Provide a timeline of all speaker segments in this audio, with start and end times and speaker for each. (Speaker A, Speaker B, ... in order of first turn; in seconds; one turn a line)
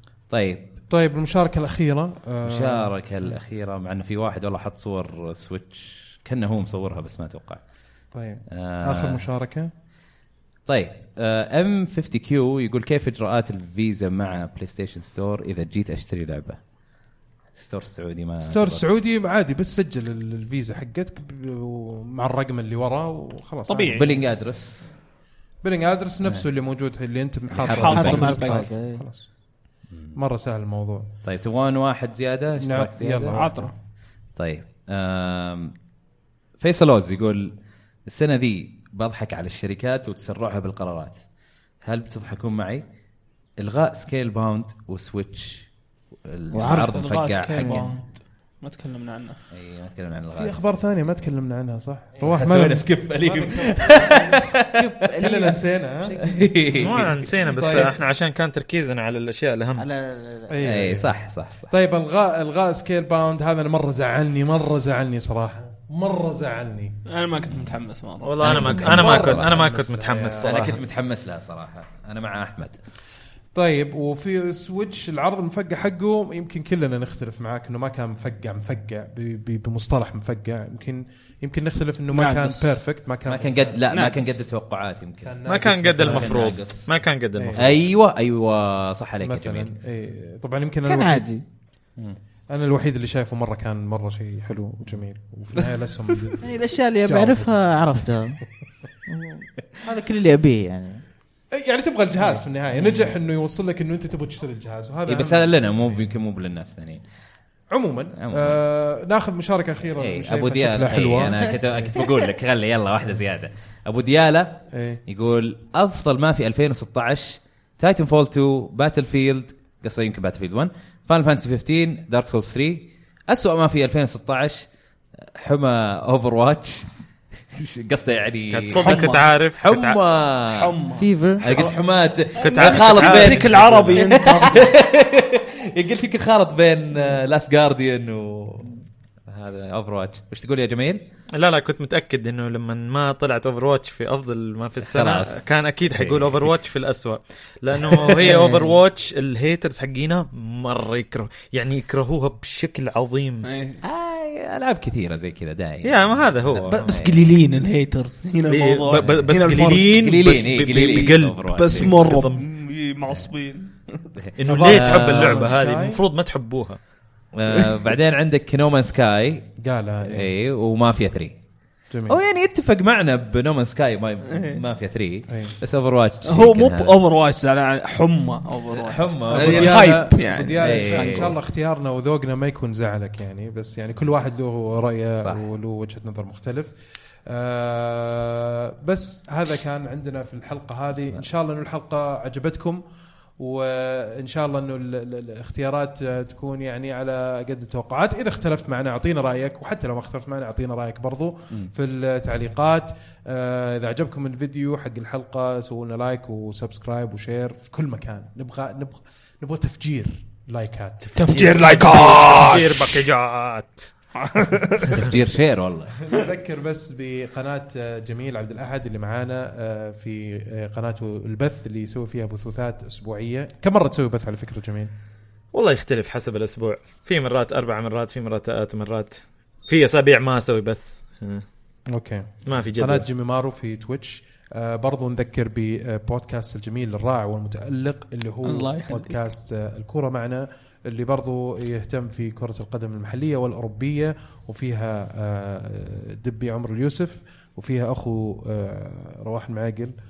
Speaker A: 0.3-0.8
Speaker B: 0.9-3.4
Speaker A: 2.4-7.6
Speaker B: 8.1-9.7
Speaker A: 8.5-9.2
Speaker A: 10.7-16.6
Speaker A: 17.5-18.9
Speaker B: 18.5-24.0
Speaker C: 23.7-24.1
Speaker A: 23.9-24.9
Speaker B: 25.6-29.3
Speaker A: 27.5-28.3
Speaker C: 27.7-28.7
Speaker D: 27.9-29.0
Speaker B: 30.1-31.1
Speaker A: 31.2-33.4
Speaker B: 32.6-33.7
Speaker C: 33.3-33.7
Speaker A: 34.4-35.7
Speaker A: 36.6-37.5
Speaker A: 38.1-41.2
Speaker A: 41.8-42.8
Speaker A: 43.6-45.7
Speaker A: 46.2-47.9
Speaker D: 46.5-47.0
Speaker C: 46.6-49.4
Speaker D: 47.6-47.9
Speaker A: 49.5-50.6
Speaker B: 50.4-54.3
Speaker A: 52.2-54.7
Speaker D: 54.0-56.5
Speaker B: 55.2-56.2
Speaker A: 56.2-57.8
Speaker E: 56.8-59.9
Speaker B: 57.5-57.9
Speaker D: 59.8-60.7
Speaker B: 60.5-61.2
Speaker A: 60.6-61.7
Speaker B: 61.7-67.0
Speaker C: 67.1-68.9
Speaker E: 68.2-70.8
Speaker A: 68.4-69.5
Speaker B: 68.8-70.7
Speaker A: 70.4-72.8
Speaker B: 73.5-83.8
Speaker C: 82.1-82.7
Speaker A: 83.3-85.4
Speaker C: 83.9-84.3
Speaker B: 85.2-86.7
Speaker E: 85.5-87.7
Speaker A: 86.0-86.9
Speaker B: 87.3-87.8
Speaker A: 87.6-89.7
Speaker B: 89.2-91.3
Speaker D: 90.9-91.4
Speaker B: 92.5-97.6
Speaker D: 96.4-98.4
Speaker D: 99.1-101.0
Speaker B: 101.5-106.0
Speaker A: 102.8-103.1
Speaker A: 105.1-107.0
Speaker B: 107.7-112.0
Speaker A: 108.2-108.6
Speaker A: 110.0-124.7
Speaker B: 114.7-115.0
Speaker A: 125.3-126.8
Speaker A: 127.5-130.7
Speaker E: 128.5-130.0
Speaker C: 128.7-129.3
Speaker C: 130.5-131.6
Speaker D: 130.9-131.7
Speaker A: 131.4-138.7
Speaker C: 132.4-134.7
Speaker E: 132.4-134.0
Speaker D: 134.1-134.6
Speaker A: 139.3-141.0
Speaker E: 141.4-153.5
Speaker A: 144.8-146.5
Speaker A: 147.9-148.5
Speaker C: 153.4-153.8
Speaker A: 153.8-157.2
Speaker E: 155.8-157.0
Speaker C: 156.6-160.0
Speaker E: 158.5-162.4
Speaker A: 159.8-162.1
Speaker C: 161.5-164.1
Speaker A: 164.2-165.5
Speaker E: 164.4-166.8
Speaker B: 164.5-166.0
Speaker A: 167.3-169.5
Speaker B: 169.6-170.3
Speaker A: 170.1-171.3
Speaker B: 171.9-172.2
Speaker A: 172.1-177.0
Speaker C: 174.3-174.6
Speaker B: 175.3-175.6
Speaker C: 176.2-181.3
Speaker A: 178.7-180.0
Speaker B: 179.3-186.7
Speaker A: 180.6-181.4
Speaker B: 187.3-192.8
Speaker B: 193.4-212.1
Speaker C: 211.2-213.1
Speaker E: 211.3-213.9
Speaker C: 214.2-215.0
Speaker A: 214.9-216.0
Speaker B: 216.0-224.9
Speaker E: 225.5-231.5
Speaker B: 231.9-249.9
Speaker E: 232.4-233.1
Speaker C: 238.4-239.2